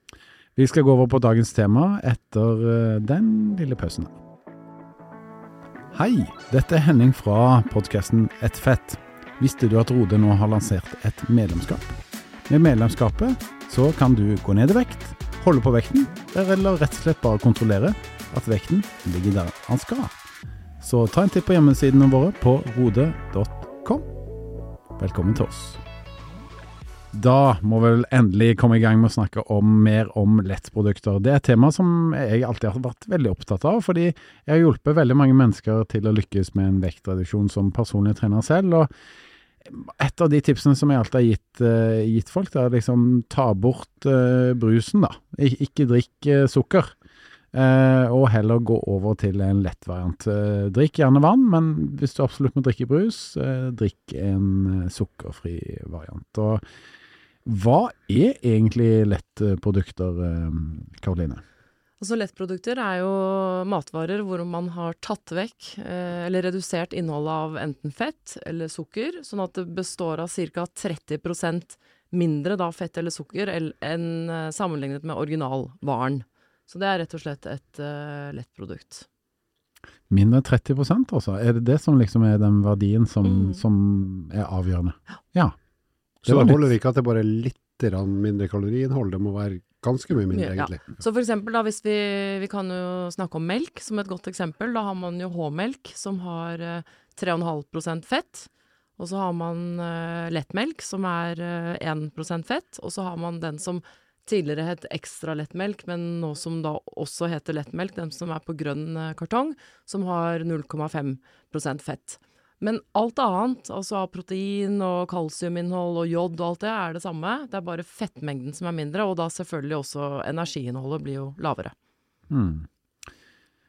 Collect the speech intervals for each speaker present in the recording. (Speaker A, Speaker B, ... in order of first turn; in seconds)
Speaker A: 0.6-4.1, 5.9-20.1, 20.8-24.1, 25.0-25.8, 27.1-38.9, 39.6-47.0, 47.5-56.6, 57.5-61.4, 80.1-85.5, 86.3-86.6, 122.3-122.7
Speaker B: 62.0-79.1, 83.2-83.6, 90.3-121.7
Speaker C: 86.2-90.8